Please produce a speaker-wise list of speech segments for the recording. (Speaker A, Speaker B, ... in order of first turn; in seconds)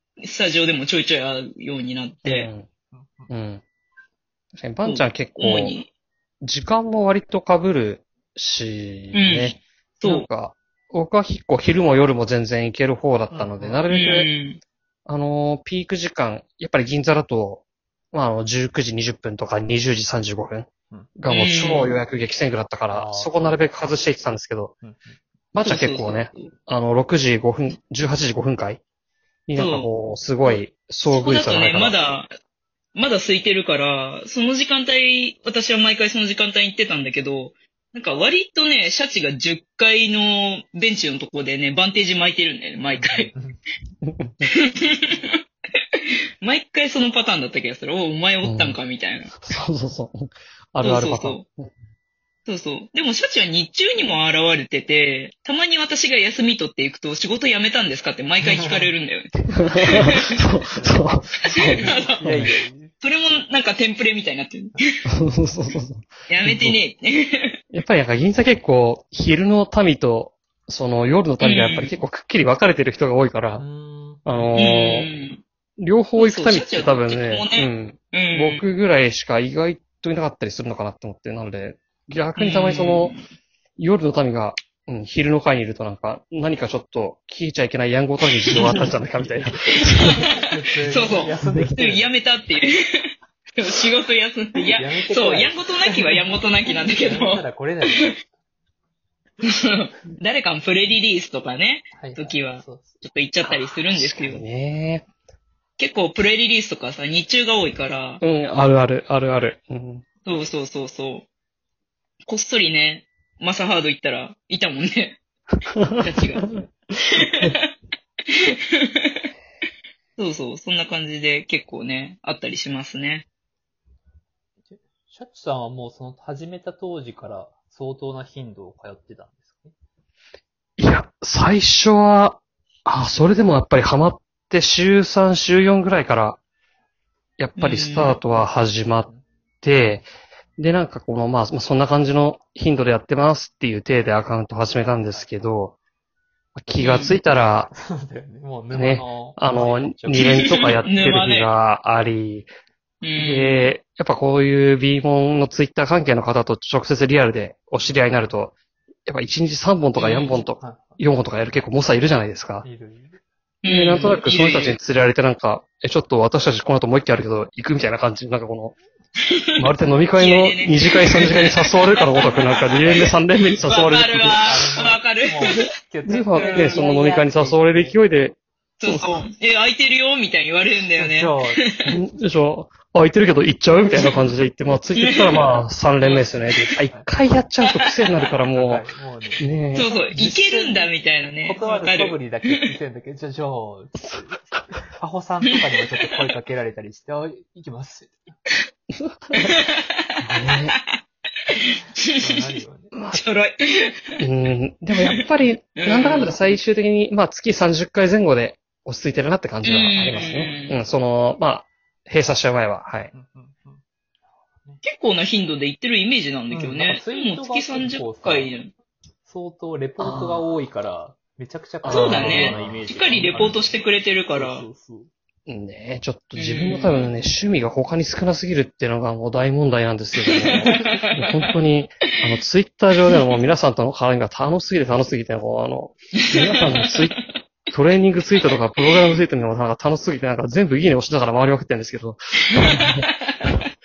Speaker A: 0.2-2.5, 4.8-5.9, 9.1-10.3, 13.9-14.6, 21.3-21.9, 25.6-26.4, 29.6-29.9, 30.4-32.3, 33.0-43.3, 44.5-45.4, 46.4-49.4, 50.8-51.5, 52.5-60.4, 61.5-64.8, 66.3-67.6, 71.4-72.0, 74.6-75.4, 76.2-78.6, 82.4-83.2, 88.5-88.8, 89.8-90.2, 90.9-98.2, 99.4-104.4, 105.8-108.2, 110.2-111.3, 112.3-115.2, 116.0-116.5, 117.1-117.7, 118.4-119.2, 120.2-123.2, 137.6-138.2, 146.8-147.1, 150.1-151.5, 153.0-153.7, 160.0-160.4, 163.6-164.8, 170.2-175.7, 176.3-176.9, 178.8-181.9, 184.9-186.8, 189.7-192.7, 199.4-199.9, 200.4-201.0, 202.1-202.6, 203.1-204.2, 205.8-206.3, 209.6-210.8, 214.8-218.7, 221.9-224.7, 226.3-227.1, 230.3-231.2, 236.3-237.2, 242.6-243.2
Speaker B: 2.2-2.7, 3.3-3.6, 4.5-5.8, 6.4-14.3, 15.1-24.7, 25.5-28.8, 29.5-32.0, 44.0-44.5, 48.4-48.8, 49.3-51.7, 59.5-62.5, 65.1-66.8, 67.7-73.7, 74.2-75.1, 75.8-83.2, 83.8-90.2, 91.5-91.8, 103.5-105.1, 108.2-110.0, 115.7-116.6, 117.2-117.6, 130.8-136.4, 137.4-139.1, 139.6-140.1, 140.6-145.8, 146.6-147.7, 148.7-152.5, 153.2-158.5, 159.1-162.7, 163.7-168.8, 169.6-174.6, 175.6-179.2, 181.9-188.8, 189.4-189.9, 194.0-194.6, 198.9-199.6, 200.2-200.8, 202.9-203.2, 204.2-213.1, 220.0-220.4, 221.8-223.6, 225.5-237.2, 237.7-243.5
Speaker C: 2.9-3.3, 13.3-13.9, 22.9-23.4, 24.8-25.2, 43.0-43.6, 58.4-58.9, 60.7-61.1, 61.7-62.9, 73.6-74.2, 90.1-92.1, 94.7-98.2, 102.0-103.0, 124.7-129.7, 144.8-145.4, 147.7-150.6, 157.8-158.1, 160.6-161.0, 162.6-163.2, 174.4-178.0, 181.0-181.6, 186.8-187.1, 188.5-190.9, 191.4-198.3, 202.2-202.9, 210.0-210.6, 213.1-214.8, 216.5-218.6, 219.2-225.1